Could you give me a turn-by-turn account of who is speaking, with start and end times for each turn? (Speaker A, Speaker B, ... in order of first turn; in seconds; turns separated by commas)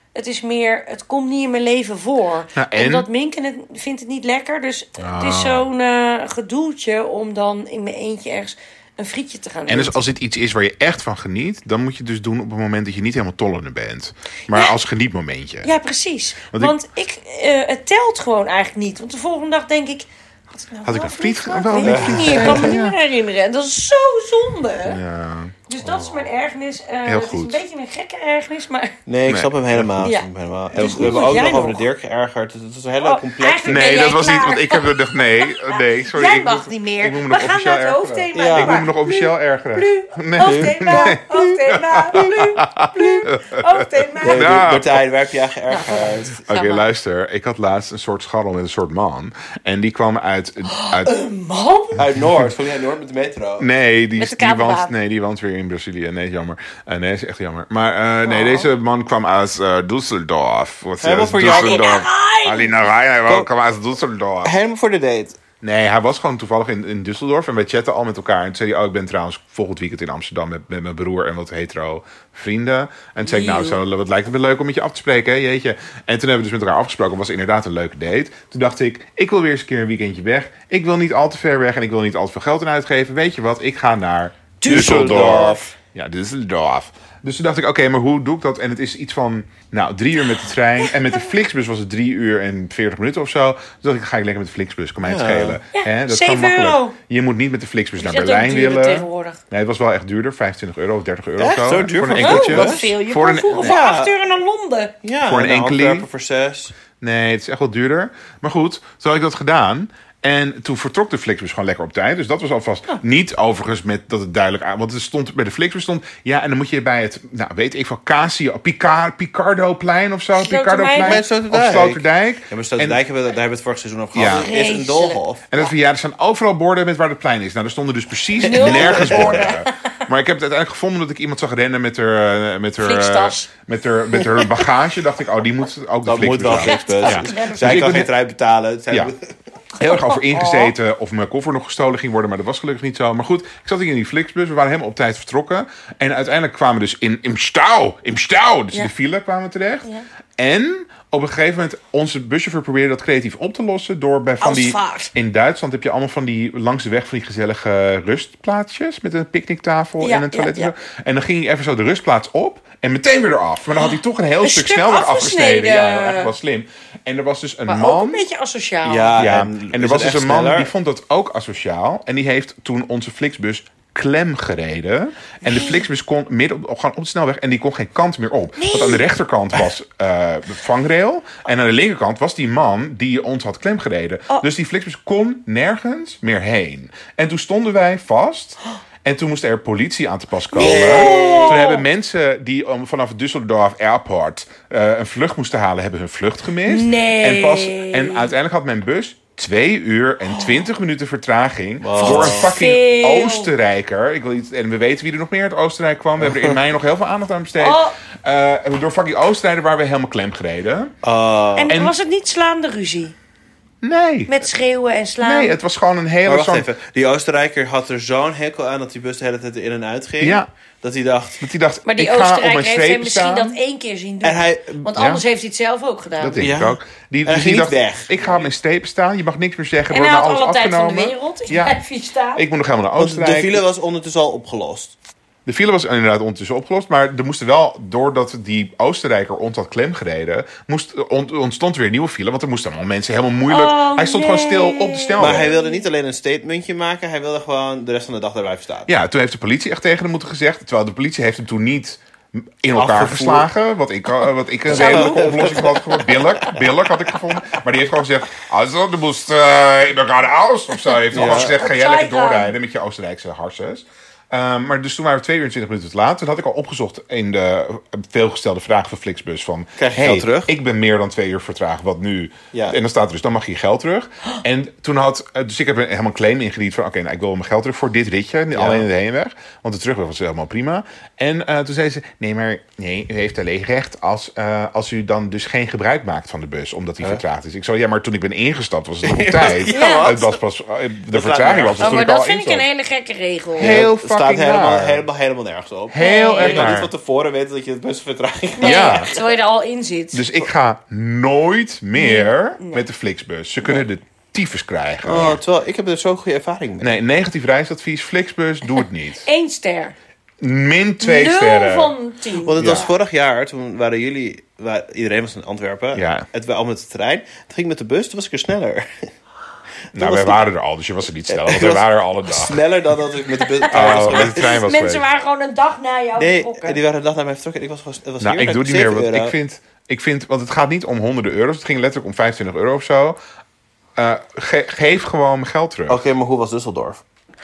Speaker A: 0.1-10.0, Speaker B: 2.5-3.1, Speaker B: 5.0-5.7, Speaker B: 9.7-15.7, Speaker A: 15.6-25.0, Speaker B: 20.8-22.9, Speaker C: 21.8-22.8, Speaker B: 24.8-25.5, Speaker A: 25.7-29.0, Speaker C: 25.8-26.2, Speaker B: 27.1-27.6, Speaker C: 29.1-33.9, Speaker B: 29.3-30.1, Speaker A: 30.0-31.8, Speaker B: 30.8-31.3, Speaker A: 33.0-44.5, Speaker B: 33.6-45.0, Speaker C: 38.3-38.8, Speaker C: 40.4-41.1, Speaker C: 44.2-46.4, Speaker A: 45.7-46.9, Speaker B: 46.5-51.1, Speaker A: 50.6-52.0, Speaker B: 52.0-52.5, Speaker C: 52.0-53.7, Speaker B: 53.6-64.5, Speaker A: 54.2-54.9, Speaker A: 58.2-58.7, Speaker C: 61.0-62.0, Speaker A: 61.4-62.8, Speaker C: 64.4-65.4, Speaker B: 65.6-103.8, Speaker A: 73.2-73.8, Speaker A: 84.6-85.7, Speaker C: 84.7-85.7, Speaker C: 95.0-95.6, Speaker A: 95.7-97.0, Speaker A: 98.0-99.4, Speaker C: 101.4-102.9, Speaker A: 102.2-104.9, Speaker C: 103.6-104.1, Speaker C: 105.0-106.8, Speaker B: 105.2-106.0, Speaker B: 107.0-123.0, Speaker A: 120.3-121.2, Speaker C: 121.0-125.4, Speaker B: 124.1-124.5, Speaker A: 124.2-125.7, Speaker B: 125.5-138.1, Speaker A: 128.4-130.0, Speaker C: 128.4-129.6, Speaker A: 132.8-133.5, Speaker C: 136.1-139.3, Speaker A: 136.4-137.9, Speaker B: 139.8-168.2, Speaker A: 139.8-140.8, Speaker A: 154.4-155.1, Speaker A: 160.0-160.7, Speaker A: 164.4-166.3, Speaker A: 167.7-169.2, Speaker C: 168.8-170.7, Speaker B: 169.2-210.9, Speaker A: 175.4-175.8, Speaker A: 178.6-179.0, Speaker A: 190.5-191.8, Speaker C: 190.6-191.6, Speaker A: 196.7-198.3, Speaker A: 200.3-200.6, Speaker C: 201.8-202.5, Speaker A: 202.0-203.5, Speaker C: 206.2-206.6, Speaker A: 207.6-208.0, Speaker C: 211.0-211.8, Speaker A: 211.6-213.1, Speaker B: 211.7-211.9, Speaker B: 213.8-214.5, Speaker A: 214.3-215.6, Speaker B: 215.2-216.7, Speaker C: 216.2-221.4, Speaker B: 220.2-220.5, Speaker B: 221.4-223.6, Speaker A: 221.8-226.5, Speaker C: 224.2-224.8, Speaker B: 224.9-225.2, Speaker B: 226.2-231.8, Speaker C: 226.4-228.4, Speaker A: 229.9-232.4, Speaker B: 232.4-233.6, Speaker C: 233.0-234.9, Speaker B: 235.4-245.5, Speaker A: 243.5-245.9, Speaker C: 245.2-248.9, Speaker B: 248.9-292.6, Speaker C: 252.7-253.5, Speaker C: 254.7-256.6, Speaker A: 254.7-255.8, Speaker C: 261.1-261.6, Speaker A: 261.1-262.5, Speaker C: 269.8-270.5, Speaker C: 278.5-278.9, Speaker C: 289.0-290.4, Speaker A: 289.7-290.1, Speaker C: 291.1-292.0, Speaker A: 291.8-293.8, Speaker B: 293.6-295.1, Speaker C: 293.6-299.3, Speaker B: 295.9-296.9, Speaker A: 296.0-296.7, Speaker A: 298.6-300.3, Speaker B: 298.6-299.1, Speaker B: 300.1-305.4, Speaker A: 301.9-302.9, Speaker C: 305.0-306.9, Speaker B: 306.8-309.3, Speaker A: 309.2-309.9, Speaker B: 310.4-311.9, Speaker A: 311.0-312.9, Speaker C: 312.4-319.1, Speaker B: 312.6-312.9, Speaker B: 315.9-316.3, Speaker C: 319.9-320.5, Speaker B: 319.9-322.6, Speaker C: 321.3-324.6, Speaker A: 323.5-326.8, Speaker B: 323.7-325.0, Speaker C: 326.2-329.4, Speaker B: 328.2-333.2, Speaker B: 333.9-336.0, Speaker C: 335.9-337.0